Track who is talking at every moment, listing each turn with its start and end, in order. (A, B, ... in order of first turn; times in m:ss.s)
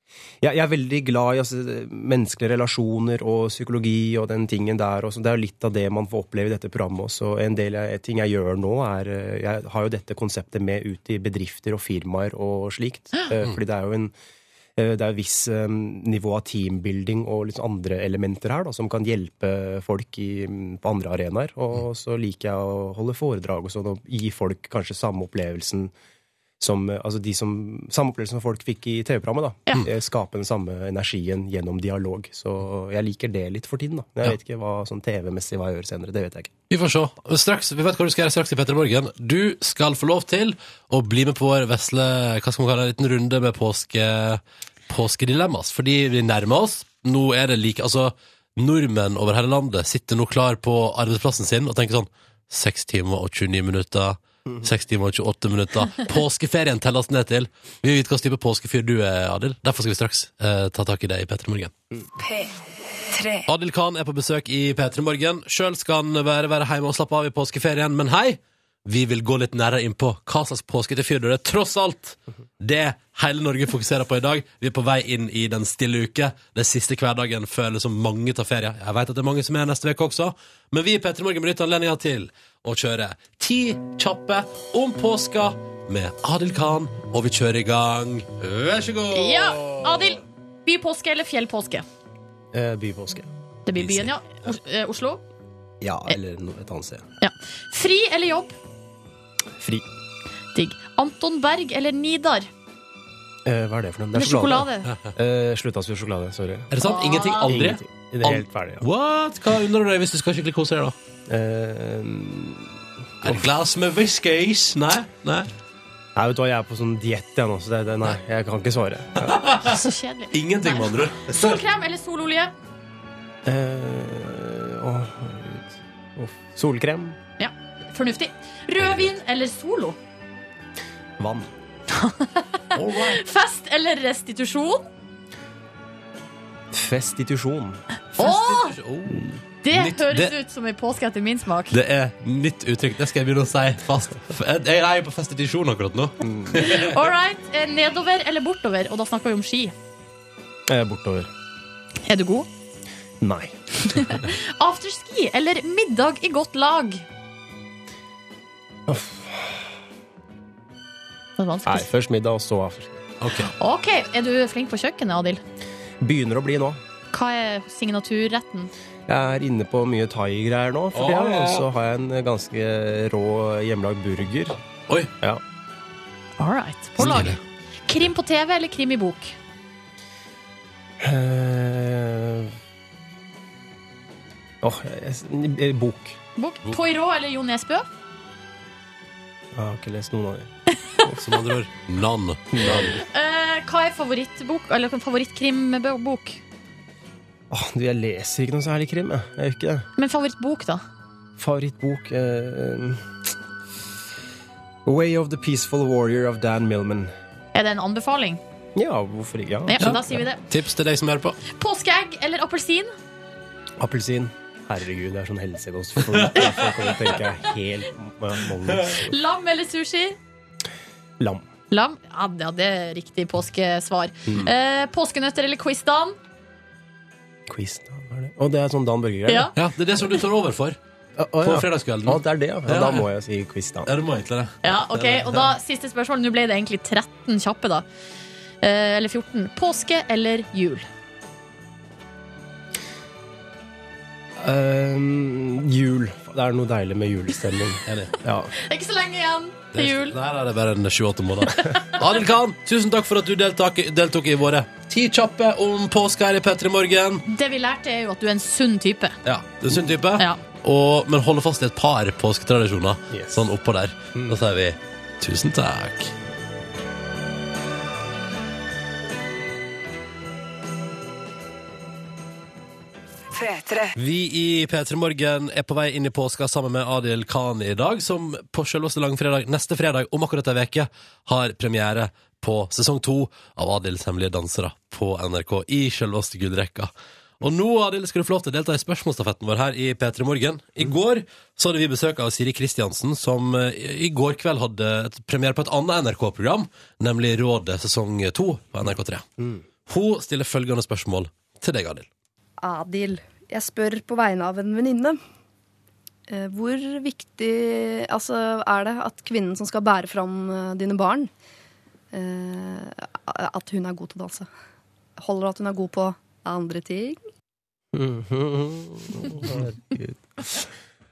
0:00.4-0:14.1 A
0:14.8-0:25.9 A
0:26.6-0:36.5 A
0:36.7-1:01.7 B
1:02.2-1:03.5 C
1:03.5-1:30.2 B
1:29.1-1:31.8 D
1:32.5-1:33.3 A
1:33.6-1:35.2 D
1:33.7-1:34.1 B
1:35.8-1:37.0 A
1:37.2-1:38.6 D
1:39.6-1:39.8 A
1:40.5-1:42.5 D
1:43.4-1:46.7 A
1:44.1-1:44.9 D
1:46.7-1:50.9 B
1:46.8-1:47.5 D
1:47.3-1:48.8 A
1:51.3-1:53.4 A
1:53.2-1:55.5 B
1:56.1-1:59.6 A
1:59.2-2:01.6 B
1:59.6-2:02.5 D
2:03.4-2:07.2 A
2:07.4-2:10.0 D
2:11.2-2:11.5 A
2:11.9-2:14.9 D
2:12.7-2:13.2 B
2:16.7-2:17.8 A
2:18.1-2:20.3 B
2:18.2-2:18.8 D
2:19.6-2:21.8 D
2:21.7-2:26.9 B
2:26.2-2:26.8 A
2:26.5-2:29.7 D
2:30.7-2:31.3 A
2:32.0-2:32.5 D
2:33.2-2:33.6 A
2:33.8-2:37.0 D
2:38.9-2:39.7 A
2:41.4-2:41.9 D
2:41.6-2:43.0 A
2:43.2-2:43.5 B
2:43.5-2:45.4 D
2:46.0-2:46.8 A
2:47.1-2:48.7 D
2:49.1-2:54.6 A
2:50.9-2:51.6 B
2:56.4-2:59.4 D
2:57.0-2:57.4 B
3:01.0-3:02.6 A
3:04.6-3:06.2 A
3:06.4-3:07.9 D
3:09.5-3:10.5 A
3:11.2-3:13.0 B
3:12.5-3:13.0 A
3:13.0-3:16.4 D
3:17.5-3:19.9 A
3:20.0-3:20.8 D
3:21.4-3:23.0 A
3:24.8-3:27.1 A
3:27.5-3:28.4 D
3:28.7-3:30.1 A
3:29.7-3:30.4 D
3:29.8-3:31.4 B
3:31.5-3:32.9 D
3:33.8-3:39.2 A
3:36.2-3:36.5 B
3:39.1-3:40.2 D
3:41.2-3:41.4 A
3:41.7-3:46.2 D
3:44.2-3:44.5 A
3:47.5-3:49.5 A
3:49.3-3:49.5 D
3:49.5-3:50.8 B
3:51.2-3:53.9 A
3:51.4-3:53.1 B
3:53.8-3:55.5 B
3:54.6-3:57.8 D
3:58.6-4:00.8 D
4:04.4-4:08.5 A
4:07.8-4:08.1 B
4:08.6-4:10.2 D
4:09.7-4:17.2 B
4:11.6-4:12.0 D
4:17.3-4:19.2 D
4:19.2-4:26.1 B
4:23.1-4:23.5 A
4:33.3-4:34.0 C
4:34.0-4:59.2 B
4:59.9-5:02.1 B
5:02.6-5:05.2 E
5:06.3-5:11.3 E
5:12.1-5:14.5 E
5:15.2-5:17.2 E
5:17.9-5:20.7 A